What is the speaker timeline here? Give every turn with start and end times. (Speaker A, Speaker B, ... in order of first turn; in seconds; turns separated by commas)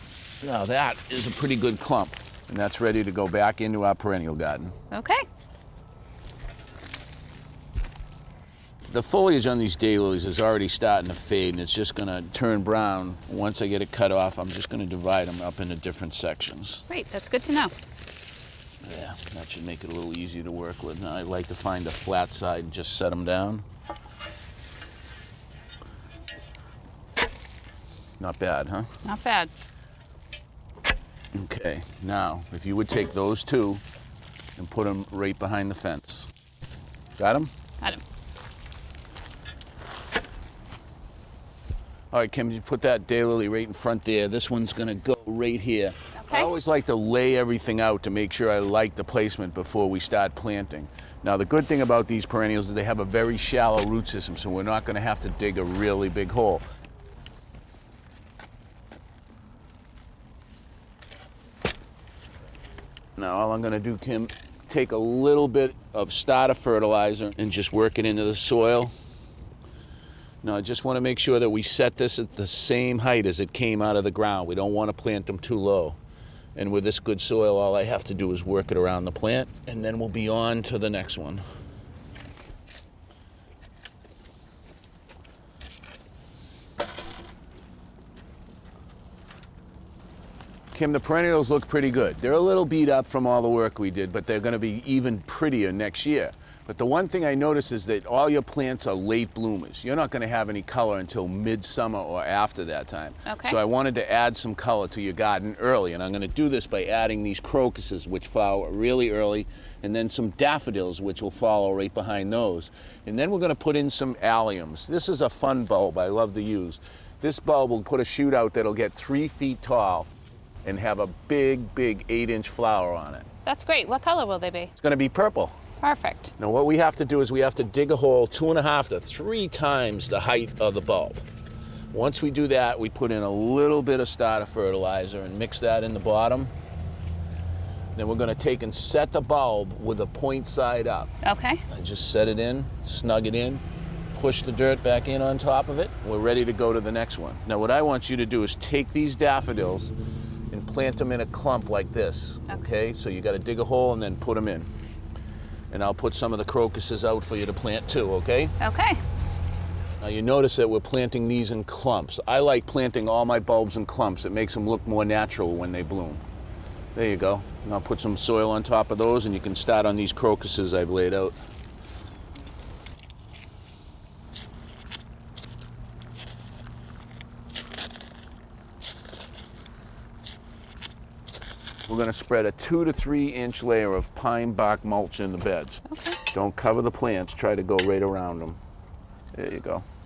Speaker A: 0.4-4.7, Speaker B: 4.9-5.2, Speaker A: 8.9-16.9, Speaker B: 16.9-17.7, Speaker A: 18.8-23.6, Speaker A: 28.2-29.0, Speaker B: 29.1-29.5, Speaker A: 31.3-33.8, Speaker A: 34.6-36.3, Speaker A: 37.2-37.5, Speaker A: 42.1-56.6, Speaker B: 46.2-46.5, Speaker A: 63.2-68.9, Speaker A: 70.4-76.0, Speaker A: 76.5-81.4, Speaker A: 90.7-120.1, Speaker B: 103.3-103.6, Speaker A: 120.6-123.3, Speaker B: 123.5-124.7, Speaker A: 124.8-125.6, Speaker B: 125.8-126.3, Speaker A: 126.4-131.2, Speaker A: 131.9-136.5, Speaker A: 137.9-141.1, Speaker B: 141.2-141.6, Speaker A: 141.7-143.6, Speaker A: 144.1-149.9, Speaker A: 150.5-154.7, Speaker A: 155.7-158.6, Speaker B: 158.6-159.0, Speaker A: 160.0-166.2, Speaker A: 166.9-171.4, Speaker A: 181.9-188.6, Speaker B: 185.9-186.2, Speaker A: 189.3-189.8